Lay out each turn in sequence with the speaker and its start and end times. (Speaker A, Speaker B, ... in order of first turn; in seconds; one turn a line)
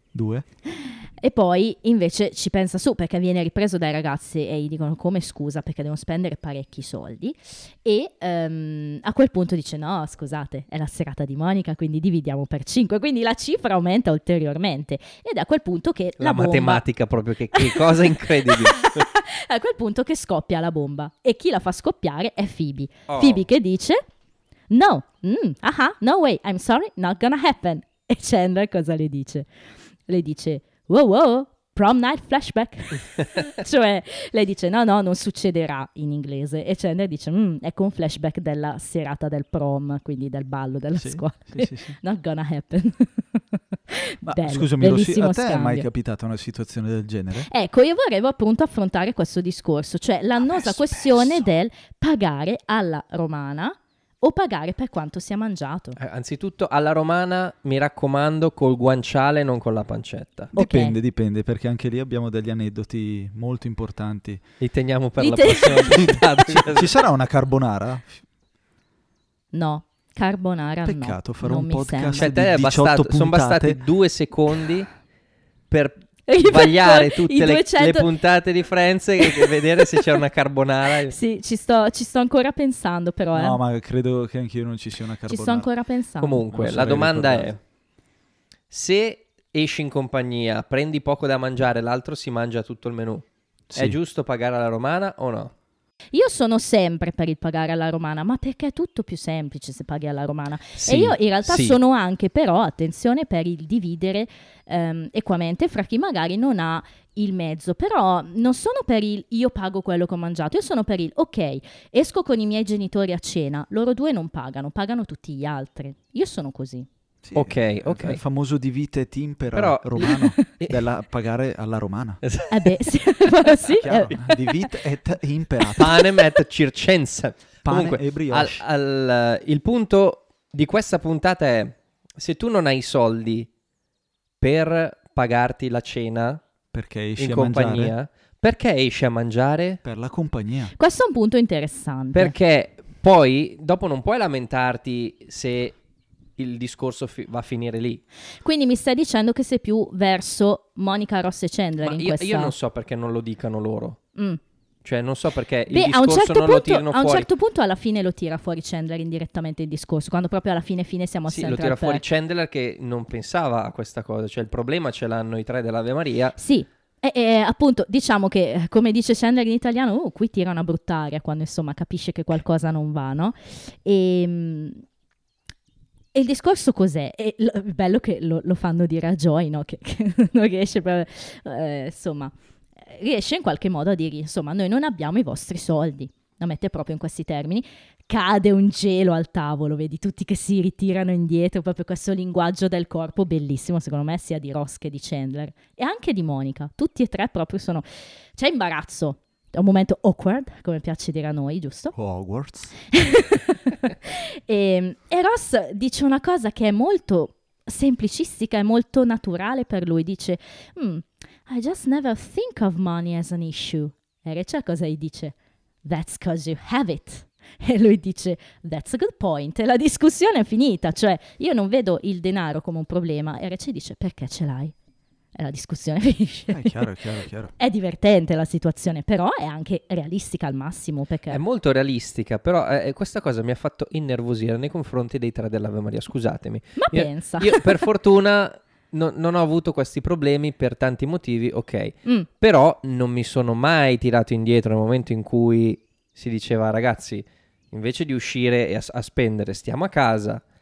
Speaker A: 0.1-0.4
Speaker B: 0.7-16.8
Speaker C: 16.2-19.1
Speaker B: 17.5-24.0
Speaker C: 23.1-23.4
Speaker B: 24.7-29.5
Speaker B: 30.1-45.9
Speaker A: 41.0-41.9
Speaker A: 44.2-47.5
Speaker B: 47.5-56.0
Speaker A: 50.5-51.5
Speaker C: 56.0-60.5
Speaker A: 60.5-64.4
Speaker B: 60.5-61.0
Speaker C: 64.6-67.0
Speaker B: 65.2-66.2
Speaker A: 65.9-68.2
Speaker B: 69.5-72.3
Speaker A: 70.8-73.8
Speaker C: 72.2-74.9
Speaker C: 75.7-81.2
Speaker B: 76.3-78.1
Speaker B: 79.2-79.9
Speaker B: 81.0-83.6
Speaker A: 83.3-85.7
Speaker B: 85.3-86.4
Speaker C: 86.2-87.6
Speaker A: 86.5-87.6
Speaker C: 88.7-95.5
Speaker A: 93.7-94.0
Speaker B: 96.1-116.9
Speaker C: 100.8-101.8
Speaker A: 117.2-122.2
Speaker C: 117.3-118.2
Speaker C: 119.5-120.8
Speaker B: 120.0-120.5
Speaker C: 122.2-122.5
Speaker B: 122.5-124.7
Speaker A: 123.8-126.0
Speaker C: 125.8-133.5
Speaker A: 127.6-128.6
Speaker C: 134.4-136.4
Speaker A: 136.7-137.9
Speaker C: 137.2-139.8
Speaker A: 139.8-140.7
Speaker B: 140.8-142.3
Speaker C: 142.1-145.8
Speaker C: 146.4-148.0
Speaker B: 148.4-152.5
Speaker C: 151.8-154.0
Speaker C: 154.8-157.3
Speaker B: 155.7-162.0
Speaker C: 161.3-166.3
Speaker B: 166.4-174.8
Speaker B: 176.1-201.9
Speaker A: 201.9-202.8
Speaker B: 202.9-224.7
Speaker B: 225.3-226.9
Speaker A: 226.5-227.5
Speaker B: 227.6-231.4
Speaker C: 231.3-250.4
Speaker B: 236.8-237.8